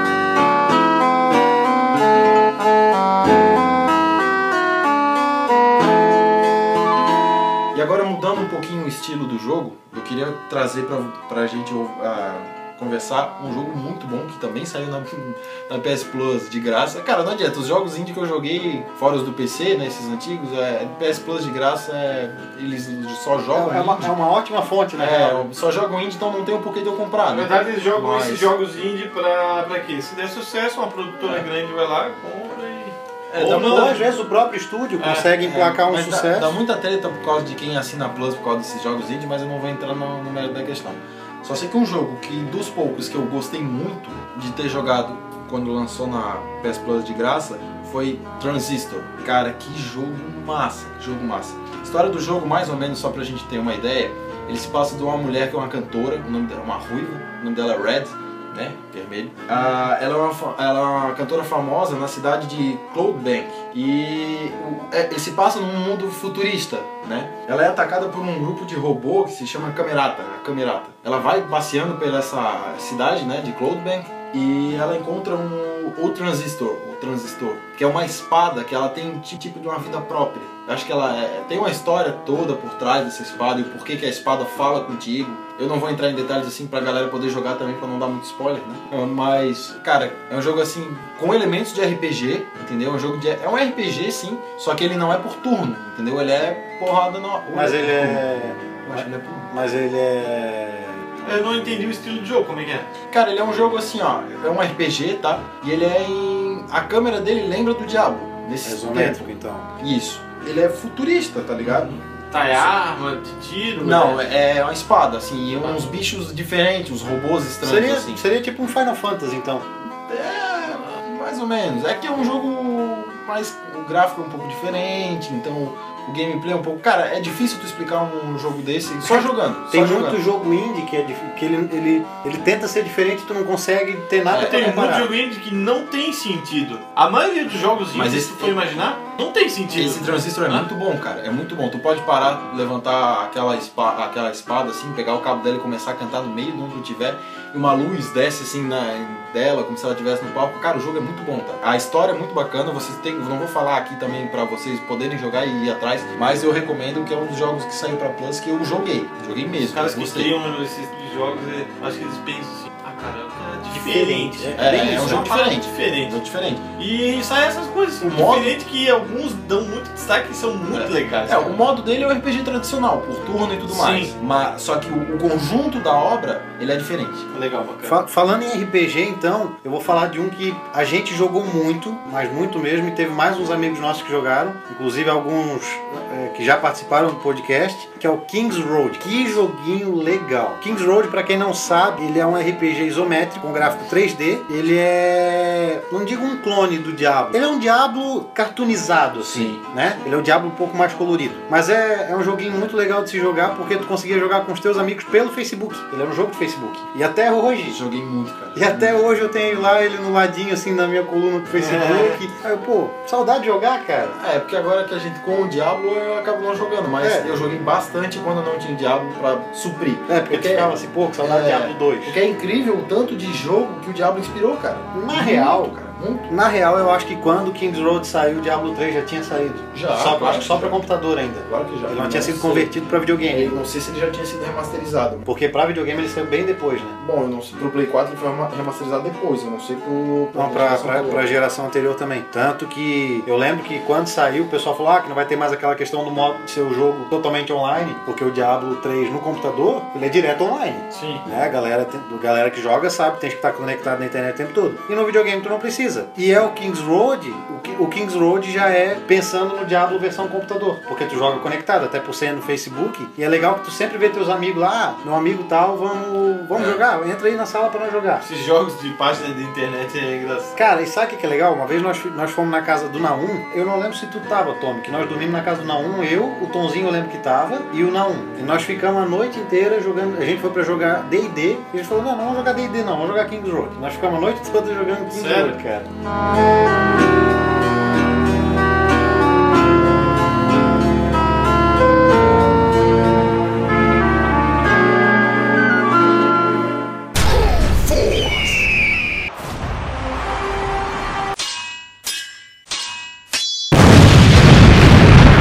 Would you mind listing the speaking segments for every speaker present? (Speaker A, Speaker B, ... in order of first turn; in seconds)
Speaker A: 7.7-24.1, 25.0-28.5, 33.3-33.9, 35.4-98.2, 98.9-99.5, 103.1-109.3, 109.8-112.0, 113.8-118.2, 120.1-130.2, 134.3-134.6, 137.9-138.6, 139.7-160.3, 164.6-166.7, 168.0-168.6, 170.7-177.3, 199.2-199.6, 207.7-209.0, 214.2-226.3, 229.7-230.8, 231.5-232.7, 233.3-235.3, 237.0-241.3
Speaker B: 23.5-25.5, 33.4-36.6, 97.5-101.0, 108.6-109.7, 117.6-119.7, 129.1-135.1, 163.7-165.3, 177.8-207.8, 208.6-214.2, 217.0-217.3, 220.1-222.2, 224.9-225.7, 226.3-233.6, 235.2-237.0, 240.3-268.3, 270.6-285.9
Speaker C: 27.3-34.0, 35.0-35.3, 101.2-102.9, 111.6-114.3, 134.3-140.7, 159.7-166.2, 166.8-171.6, 173.7-174.1, 177.3-178.0, 211.6-212.2, 250.9-251.2, 268.2-270.5, 285.1-285.6